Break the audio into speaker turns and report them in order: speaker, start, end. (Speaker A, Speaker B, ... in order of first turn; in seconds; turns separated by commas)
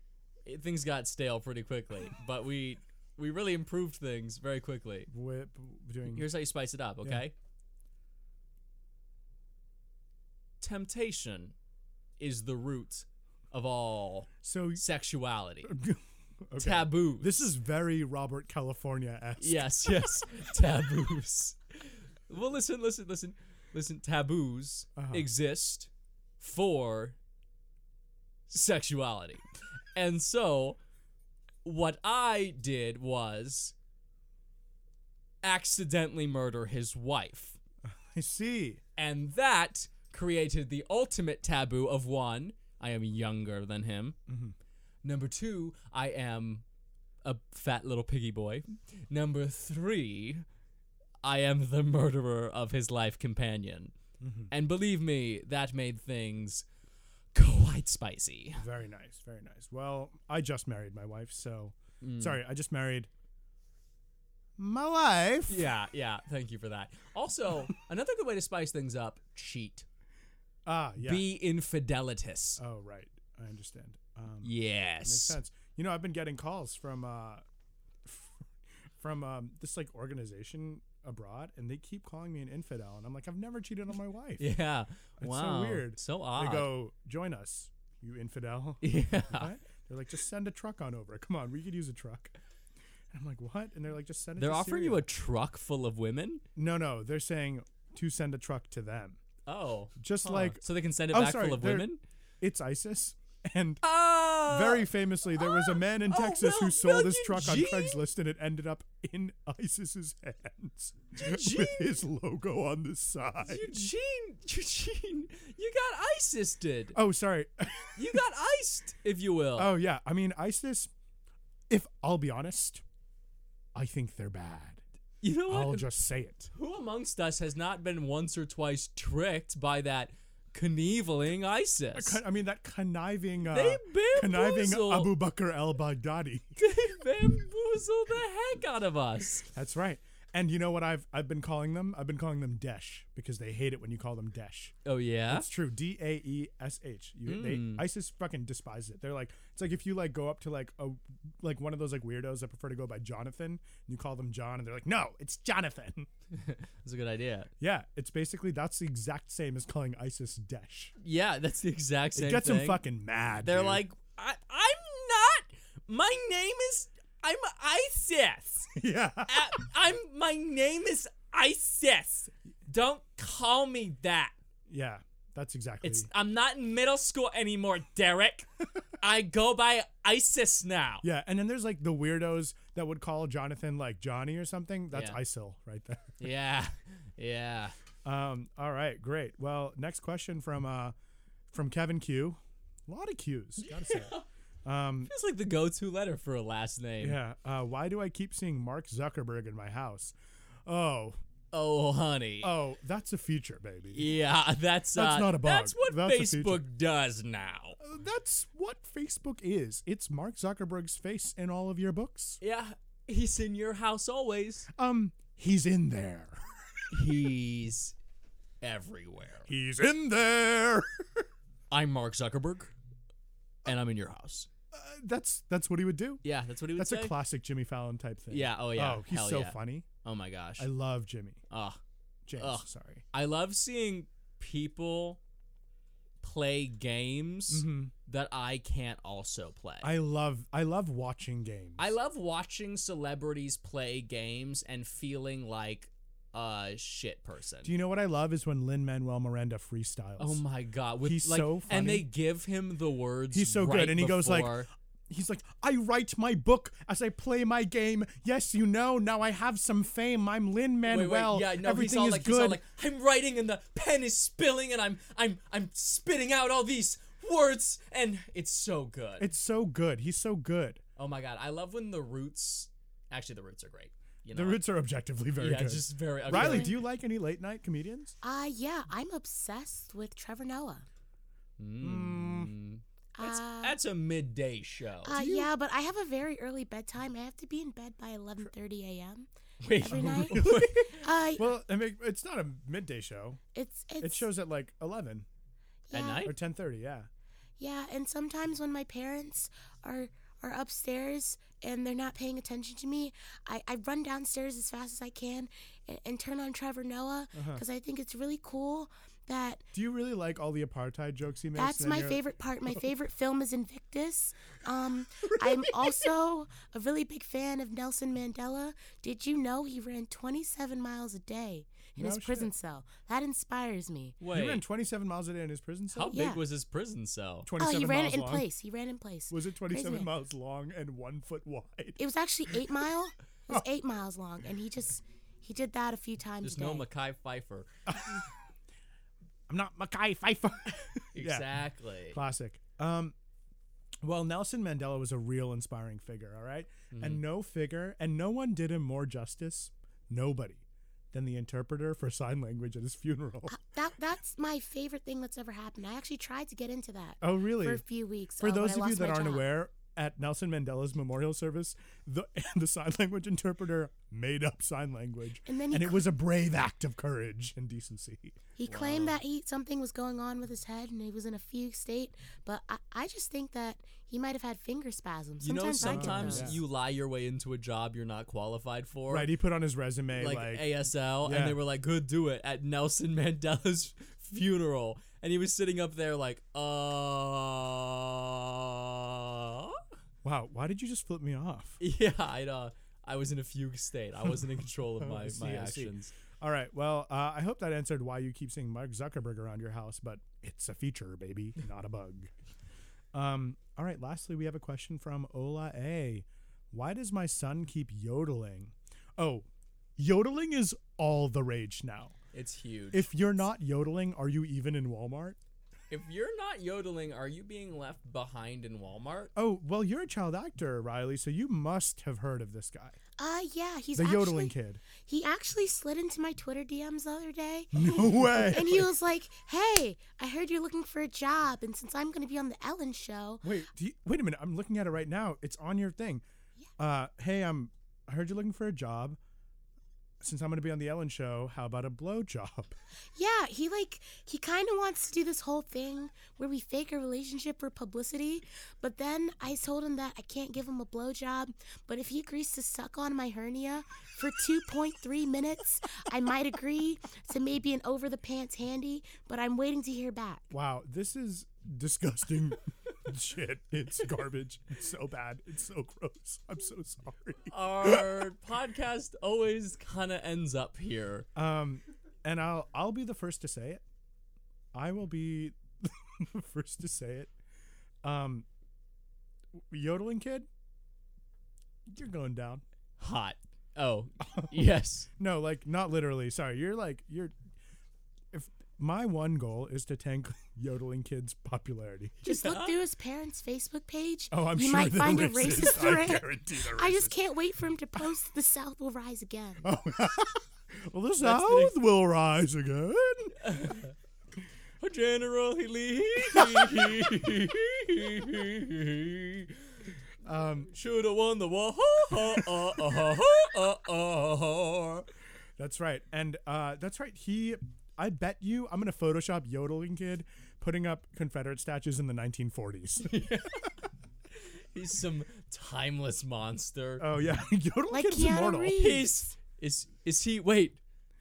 Speaker A: 0.4-5.1, Speaker B: 5.1-6.3, Speaker A: 6.1-7.3, Speaker A: 10.6-11.5, Speaker A: 12.2-15.7, Speaker B: 14.4-14.8, Speaker B: 15.6-20.2, Speaker A: 16.6-17.5, Speaker A: 19.4-27.2, Speaker B: 25.0-25.3, Speaker A: 28.5-29.4, Speaker A: 29.9-30.8, Speaker A: 31.6-33.7, Speaker A: 35.4-37.6, Speaker B: 37.8-38.8, Speaker A: 39.0-44.2, Speaker B: 44.3-44.5, Speaker A: 45.0-46.6, Speaker A: 47.2-50.4, Speaker A: 51.2-53.9, Speaker B: 54.2-54.5, Speaker A: 54.5-56.6, Speaker A: 57.3-58.6, Speaker B: 58.5-63.1, Speaker A: 62.0-62.4, Speaker B: 64.6-65.7, Speaker A: 65.5-69.8, Speaker B: 70.7-71.2, Speaker A: 71.0-72.6, Speaker B: 72.6-77.4, Speaker A: 74.4-75.4, Speaker B: 78.0-84.5, Speaker A: 84.4-86.7, Speaker B: 85.2-92.3, Speaker A: 88.8-89.5, Speaker B: 93.1-95.0, Speaker A: 94.4-96.4, Speaker B: 96.5-99.2, Speaker A: 99.5-102.0, Speaker B: 100.0-101.9, Speaker B: 102.4-103.8, Speaker A: 103.8-108.0, Speaker B: 104.4-113.8, Speaker A: 111.2-112.0, Speaker A: 113.4-117.0, Speaker B: 116.9-118.2, Speaker A: 118.0-119.7, Speaker B: 119.5-120.9, Speaker B: 121.7-122.8, Speaker B: 123.7-124.8, Speaker A: 125.2-125.9, Speaker B: 125.5-126.5, Speaker A: 126.5-132.2, Speaker B: 131.9-136.5, Speaker A: 133.5-135.1, Speaker A: 136.6-139.5, Speaker B: 139.5-144.7, Speaker A: 144.8-145.5, Speaker B: 145.3-156.1, Speaker A: 147.2-147.8, Speaker A: 156.3-157.5, Speaker B: 157.6-160.9, Speaker A: 161.0-162.8, Speaker B: 162.1-163.8, Speaker A: 163.4-168.8, Speaker B: 168.7-169.5, Speaker A: 169.3-174.3, Speaker B: 174.7-176.1, Speaker A: 175.8-178.5, Speaker A: 179.0-181.0, Speaker B: 181.0-186.2, Speaker A: 184.9-185.2, Speaker A: 186.2-187.8, Speaker B: 188.0-190.9, Speaker B: 191.5-194.1, Speaker A: 193.6-194.2, Speaker B: 194.6-195.1, Speaker A: 195.1-197.2, Speaker B: 197.0-200.1, Speaker B: 200.7-201.2, Speaker A: 201.5-202.5, Speaker B: 202.4-204.1, Speaker A: 203.9-207.8, Speaker B: 204.9-206.6, Speaker B: 207.8-212.4, Speaker A: 212.4-214.7, Speaker B: 214.7-217.1, Speaker A: 216.9-217.9, Speaker A: 218.6-219.5, Speaker B: 219.5-221.3, Speaker A: 221.7-222.7, Speaker A: 223.6-224.5, Speaker B: 224.7-226.2, Speaker A: 226.2-227.1, Speaker B: 226.8-229.9, Speaker A: 228.3-230.7, Speaker B: 230.6-231.4, Speaker A: 231.5-231.8, Speaker B: 232.3-233.0, Speaker A: 232.4-235.2, Speaker A: 236.2-239.9, Speaker B: 237.5-237.9, Speaker B: 239.8-241.9, Speaker A: 241.8-247.7, Speaker B: 247.6-250.4, Speaker A: 250.2-254.7, Speaker B: 251.0-252.1, Speaker B: 253.3-262.6, Speaker A: 260.9-269.3, Speaker B: 269.2-270.8, Speaker A: 271.0-274.6, Speaker B: 274.3-278.1, Speaker A: 275.4-276.8, Speaker C: 276.3-276.8, Speaker C: 278.2-280.9, Speaker A: 281.6-285.1, Speaker B: 281.8-282.5, Speaker C: 283.1-283.8, Speaker C: 285.0-291.5, Speaker B: 285.1-285.5, Speaker A: 289.6-291.1, Speaker B: 289.8-290.8, Speaker B: 291.4-293.4, Speaker C: 293.5-294.3, Speaker B: 294.0-295.2, Speaker C: 295.9-296.3, Speaker A: 295.9-296.3, Speaker B: 296.2-297.1, Speaker C: 297.6-309.6, Speaker B: 307.3-307.6, Speaker B: 309.7-312.8, Speaker C: 311.5-324.2, Speaker B: 315.2-315.9, Speaker B: 322.0-322.5, Speaker A: 324.2-324.6, Speaker B: 324.3-326.2, Speaker A: 325.9-327.5, Speaker C: 326.1-326.4, Speaker B: 327.4-328.4, Speaker C: 327.6-330.1, Speaker B: 329.3-332.0, Speaker C: 332.0-336.8, Speaker A: 336.4-337.7, Speaker B: 337.9-338.2, Speaker B: 339.5-341.4, Speaker A: 341.1-342.2, Speaker B: 342.1-343.1, Speaker B: 344.0-353.6, Speaker A: 346.9-347.2, Speaker C: 353.5-359.4, Speaker B: 357.2-357.8, Speaker B: 358.4-368.4, Speaker C: 365.4-366.1, Speaker C: 368.6-376.5, Speaker A: 368.7-369.2, Speaker A: 375.4-379.3, Speaker B: 375.8-376.6, Speaker B: 379.1-380.7, Speaker A: 380.1-389.8, Speaker B: 381.2-381.6, Speaker B: 390.2-391.8, Speaker A: 391.8-396.1, Speaker B: 395.0-402.3, Speaker B: 403.1-409.4, Speaker B: 410.0-412.1, Speaker A: 412.3-413.1, Speaker B: 412.9-415.4, Speaker A: 415.9-419.3, Speaker B: 419.4-423.0, Speaker C: 423.2-433.6, Speaker B: 423.9-424.8, Speaker B: 427.7-428.9, Speaker B: 433.4-436.2, Speaker B: 436.8-439.2, Speaker B: 440.2-442.7, Speaker C: 443.1-460.5, Speaker B: 460.5-468.2, Speaker A: 467.5-471.3, Speaker B: 471.3-473.8, Speaker B: 474.7-477.3, Speaker B: 478.0-478.4, Speaker B: 479.7-480.5, Speaker B: 481.9-482.6, Speaker A: 483.0-485.1, Speaker B: 484.2-487.4, Speaker B: 488.3-492.2, Speaker C: 492.2-499.7, Speaker A: 492.2-492.8, Speaker B: 494.3-497.2, Speaker B: 499.6-503.7, Speaker A: 501.2-501.8, Speaker A: 503.4-503.9, Speaker A: 504.8-509.6, Speaker B: 506.3-506.8, Speaker B: 510.2-510.7, Speaker A: 510.7-515.1, Speaker B: 512.1-512.6, Speaker B: 515.6-523.2, Speaker A: 523.0-523.7, Speaker A: 524.3-527.1, Speaker B: 527.0-528.9, Speaker C: 527.9-529.3, Speaker A: 528.8-530.8